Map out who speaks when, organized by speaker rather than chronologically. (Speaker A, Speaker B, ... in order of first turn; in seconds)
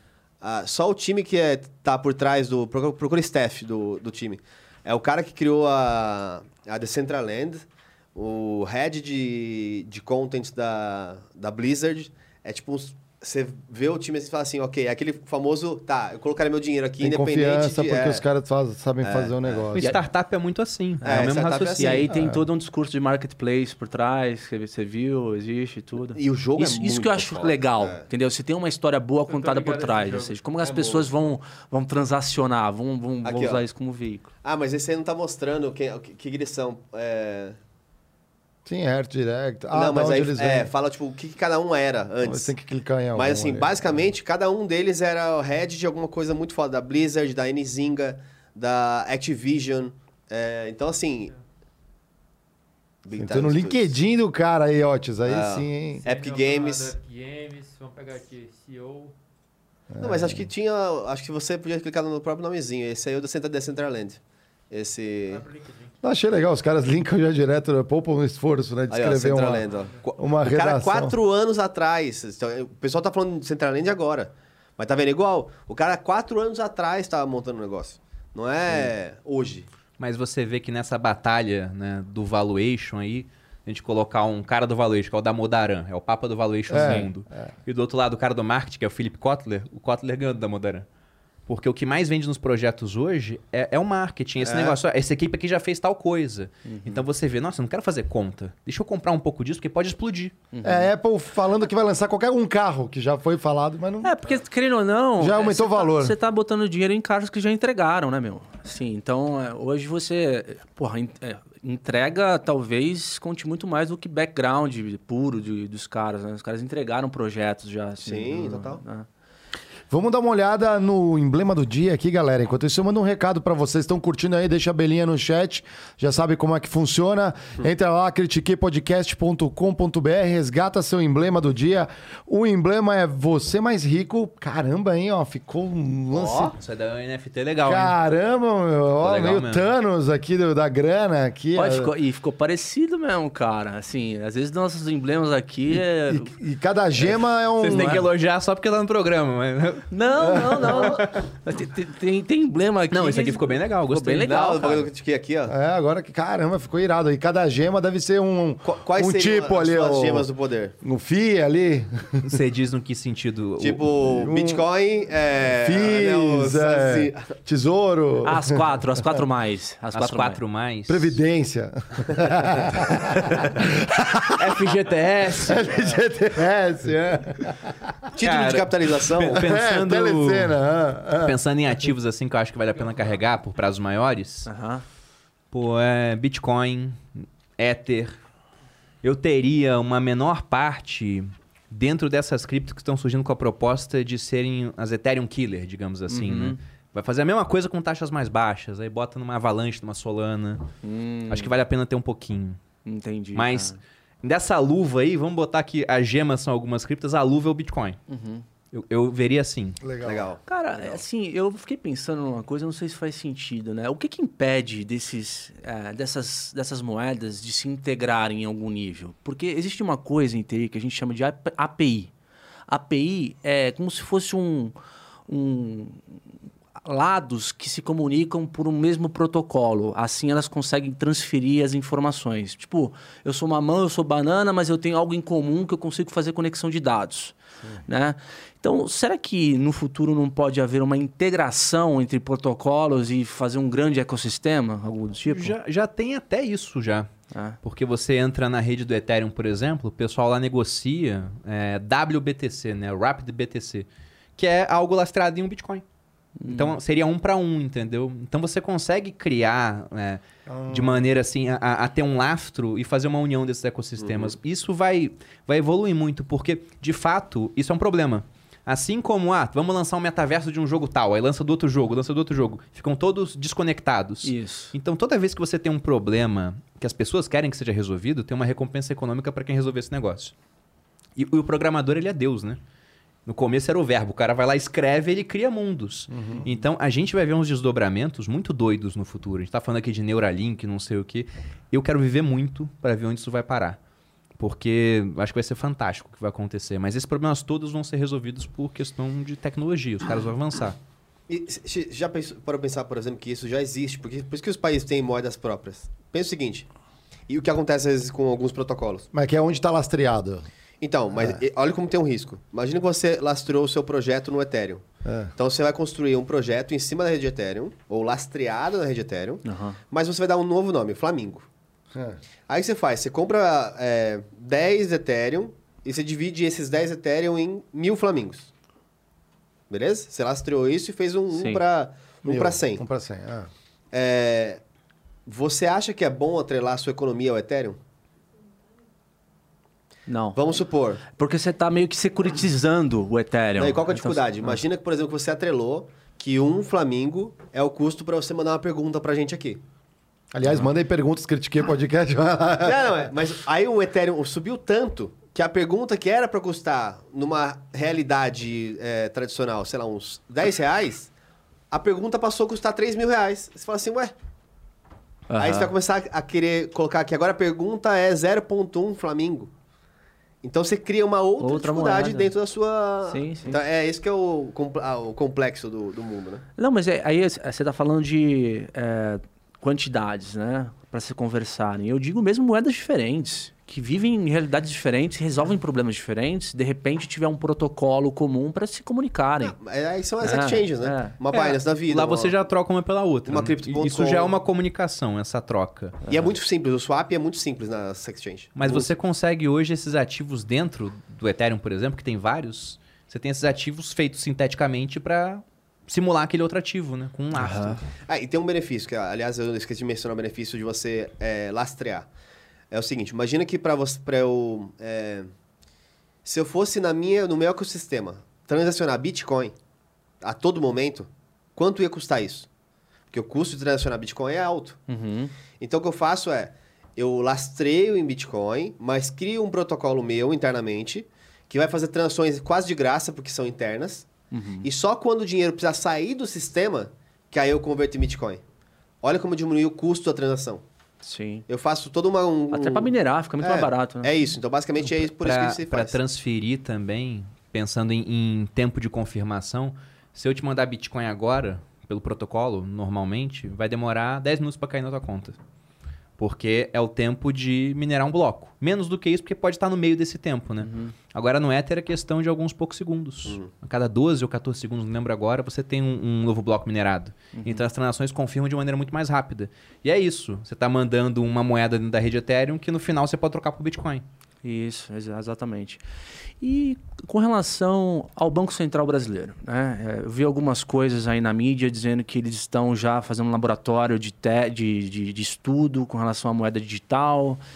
Speaker A: 0.4-18.2, 19.0-19.7, 21.0-22.1, 26.1-28.0, 30.6-31.1, 33.2-33.6, 34.4-37.6, 39.7-42.5, 43.1-51.3, 53.0-53.9, 55.2-56.9, 60.0-65.5, 68.9-79.7, 94.4-94.8, 118.0-118.8, 154.2-155.5, 158.6-160.8, 163.6-167.3, 178.2-179.4, 210.0-211.0, 264.0-264.3, 301.3-306.7, 307.3-309.1, 310.8-321.5, 322.5-328.5, 329.7-332.8, 333.9-334.6, 335.2-337.8, 340.3-341.0, 343.6-349.6, 352.6-361.1, 361.7-364.1, 365.4-369.5, 370.4-376.4, 389.4-392.3, 393.3-394.3, 396.1-398.9, 408.0-412.1, 412.7-415.3, 416.2-419.5, 420.2-422.5, 423.1-424.8, 425.6-434.1, 434.6-438.4, 439.0-440.6, 441.5-446.0
Speaker B: 17.0-19.9, 22.1-22.4, 38.6-40.7, 42.2-44.0, 53.1-56.0, 59.9-60.5, 66.0-71.2, 86.7-87.5, 100.6-104.1, 105.2-106.2, 119.9-136.5, 137.6-141.9, 146.1-148.1, 150.2-150.9, 155.5-160.3, 160.8-162.4, 164.1-164.6, 165.4-168.5, 170.9-174.7, 175.4-177.9, 179.3-181.4, 209.8-210.3, 260.5-261.0, 286.1-286.5, 309.1-310.4, 315.0-315.3, 321.9-322.2, 332.2-333.5, 350.3-352.9
Speaker C: 19.7-22.0, 80.0-90.8, 91.5-100.3, 136.2-138.0, 139.0-139.7, 147.6-151.1, 152.9-154.4, 162.2-163.9, 169.9-171.2, 174.3-175.7, 178.2-180.6, 181.2-184.5, 185.5-188.2, 189.0-200.6, 201.3-202.6, 203.3-208.0, 208.7-209.8, 245.3-247.1, 247.6-253.8, 254.4-255.8, 256.5-280.3, 281.1-282.6, 283.2-293.8, 294.4-300.8, 391.3-396.1, 398.6-407.8, 444.8-455.4, 456.2-474.0
Speaker D: 21.1-34.3, 86.8-87.1, 96.7-97.0, 100.5-100.9, 104.0-119.0, 141.5-146.3, 147.6-148.0, 149.9-154.9, 168.2-170.4, 184.4-184.8, 196.1-196.6, 200.8-201.5, 202.8-203.8, 208.1-208.4, 210.5-222.1, 222.7-224.7, 225.3-226.0, 226.8-237.3, 237.9-245.5, 247.3-247.6, 256.4-256.8, 274.2-274.7, 319.4-319.8, 331.3-331.6, 340.1-340.4, 341.2-344.5, 365.3-365.7, 371.4-372.3, 373.1-373.6, 376.6-389.6, 390.2-391.2, 407.3-407.8, 424.9-425.3, 434.3-434.7, 441.0-441.4, 442.5-444.1, 460.6-460.9, 467.3-467.6, 474.4-475.8, 476.4-487.4
Speaker E: 29.2-30.4, 56.0-59.1, 65.3-65.9